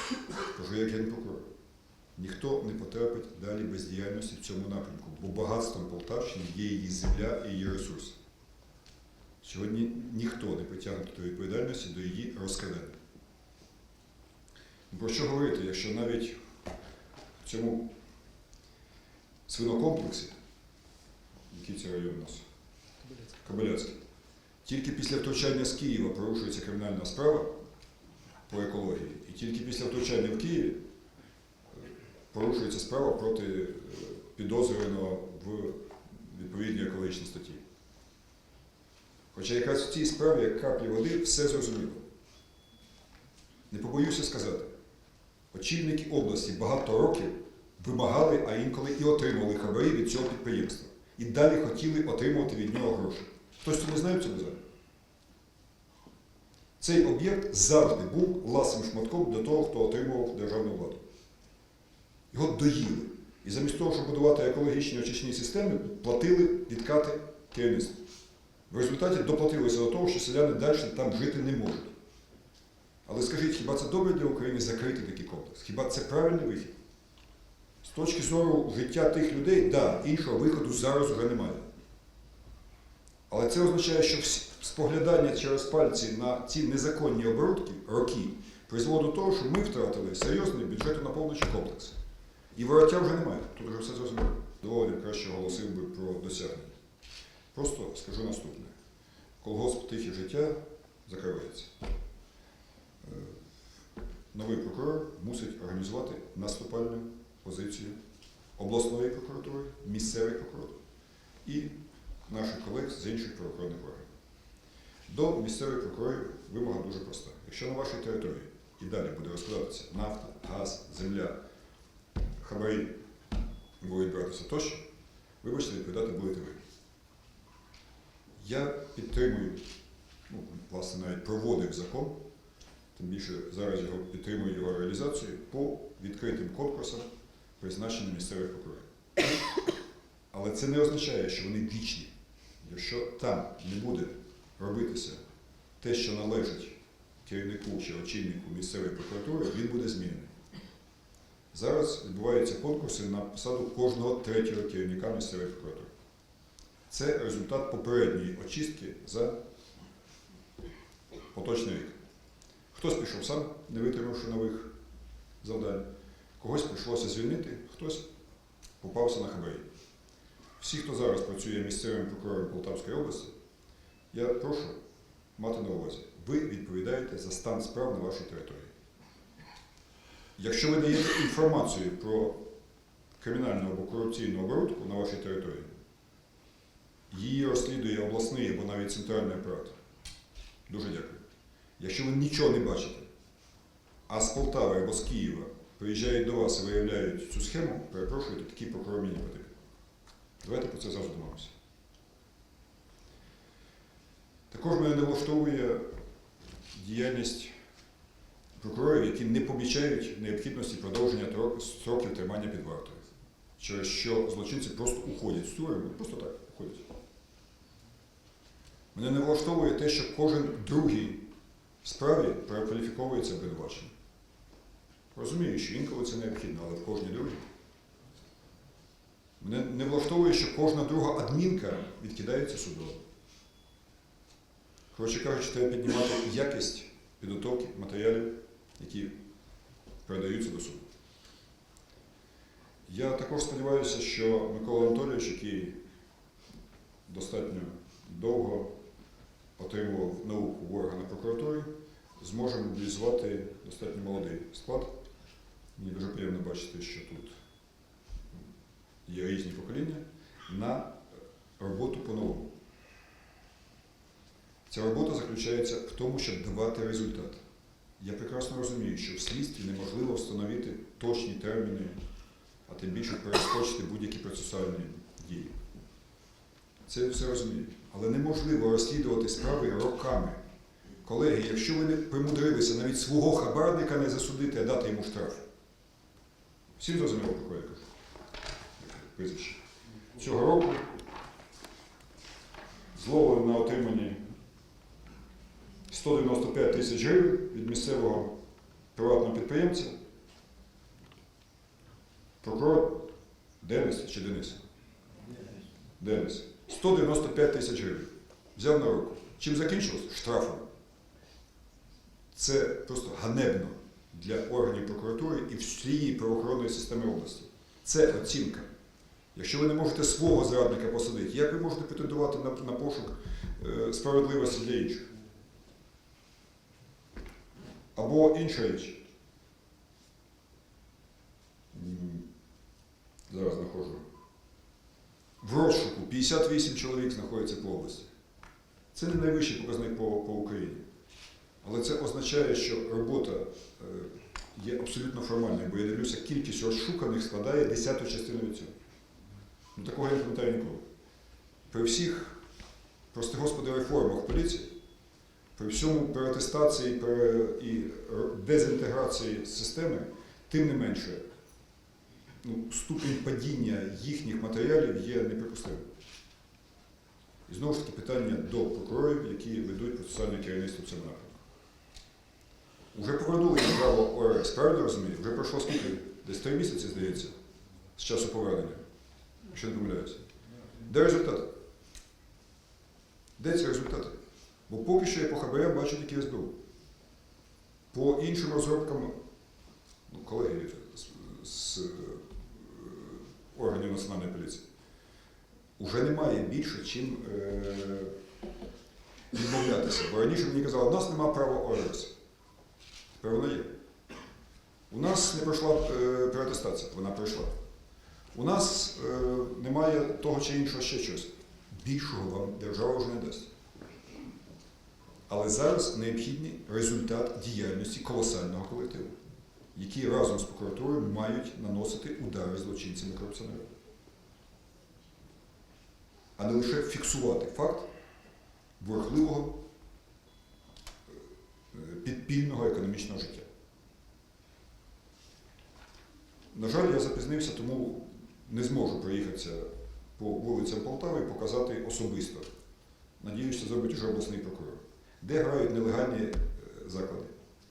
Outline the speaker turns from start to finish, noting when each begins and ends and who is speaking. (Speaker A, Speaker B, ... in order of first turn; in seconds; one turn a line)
Speaker A: 0.5-1.4
Speaker A: 2.1-8.2
Speaker A: 9.4-12.9
Speaker A: 14.9-16.4
Speaker A: 17.4-17.9
Speaker A: 19.5-20.4
Speaker A: 21.5-22.4
Speaker A: 23.4-24.0
Speaker A: 24.6-27.5
Speaker A: 28.5-30.8
Speaker A: 31.8-37.6
Speaker A: 39.3-42.0
Speaker A: 43.7-44.7
Speaker A: 45.5-54.6
Speaker A: 56.8-61.0
Speaker A: 62.3-68.0
Speaker A: 68.7-71.9
Speaker A: 73.0-76.7
Speaker A: 77.8-81.6
Speaker A: 83.3-91.9
Speaker A: 92.5-96.7
Speaker A: 97.5-98.7
Speaker A: 99.4-101.7
Speaker A: 103.0-103.3
Speaker A: 104.3-108.0
Speaker A: 108.6-110.7
Speaker A: 111.4-111.7
Speaker A: 112.3-114.1
Speaker A: 115.1-121.3
Speaker A: 122.4-122.9
Speaker A: 123.8-124.8
Speaker A: 125.4-126.6
Speaker A: 128.4-129.6
Speaker A: 130.3-132.2
Speaker A: 132.9-137.1
Speaker A: 137.6-138.8
Speaker A: 140.3-142.1
Speaker A: 142.6-145.2
Speaker A: 145.8-150.3
Speaker A: 151.5-155.9
Speaker A: 156.9-159.3
Speaker A: 161.3-161.9
Speaker A: 162.7-164.7
Speaker A: 165.4-165.8
Speaker A: 166.4-168.0
Speaker A: 168.8-169.6
Speaker A: 170.6-173.3
Speaker A: 174.1-174.7
Speaker A: 175.4-178.7
Speaker A: 180.4-182.4
Speaker A: 183.2-185.7
Speaker A: 187.1-189.8
Speaker A: 190.7-191.2
Speaker A: 191.8-193.1
Speaker A: 194.1-199.5
Speaker A: 200.4-201.5
Speaker A: 204.5-205.8
Speaker A: 206.7-207.5
Speaker A: 208.6-213.0
Speaker A: 213.6-216.8
Speaker A: 218.9-221.2
Speaker A: 221.8-223.9
Speaker A: 225.1-227.4
Speaker A: 229.4-233.0
Speaker A: 234.9-239.1
Speaker A: 240.1-240.8
Speaker A: 242.9-245.7
Speaker A: 247.1-248.7
Speaker A: 249.6-251.7
Speaker A: 252.2-254.9
Speaker A: 255.8-257.3
Speaker A: 259.1-261.0
Speaker A: 261.6-262.5
Speaker A: 264.7-267.4
Speaker A: 268.0-271.9
Speaker A: 272.7-275.5
Speaker A: 276.9-280.4
Speaker A: 281.0-285.4
Speaker A: 286.8-287.9
Speaker A: 288.8-289.6
Speaker A: 290.1-290.8
Speaker A: 292.9-294.2
Speaker A: 295.9-298.3
Speaker A: 298.9-299.9
Speaker A: 302.4-303.1
Speaker A: 303.6-304.6
Speaker A: 306.0-310.6
Speaker A: 312.3-318.7
Speaker A: 319.3-325.1
Speaker A: 327.9-329.0
Speaker A: 331.7-332.3
Speaker A: 333.3-334.0
Speaker A: 335.4-338.1
Speaker A: 338.9-340.8
Speaker A: 341.6-348.7
Speaker A: 349.7-350.8
Speaker A: 351.7-352.4
Speaker A: 353.1-354.7
Speaker A: 355.6-361.2
Speaker A: 362.4-365.8
Speaker A: 367.5-371.4
Speaker A: 372.9-377.3
Speaker A: 377.9-378.8
Speaker A: 379.5-380.2
Speaker A: 380.9-381.5
Speaker A: 383.4-384.1
Speaker A: 384.7-386.5
Speaker A: 387.9-389.1
Speaker A: 390.1-394.6
Speaker A: 395.8-398.1
Speaker A: 399.3-402.1
Speaker A: 403.2-403.7
Speaker A: 404.9-407.5
Speaker A: 408.3-413.5
Speaker A: 415.3-419.1
Speaker A: 419.7-423.6
Speaker A: 426.4-427.9
Speaker A: 428.8-429.6
Speaker A: 431.7-433.4
Speaker A: 436.5-439.6
Speaker A: 440.2-442.5
Speaker A: 443.2-447.3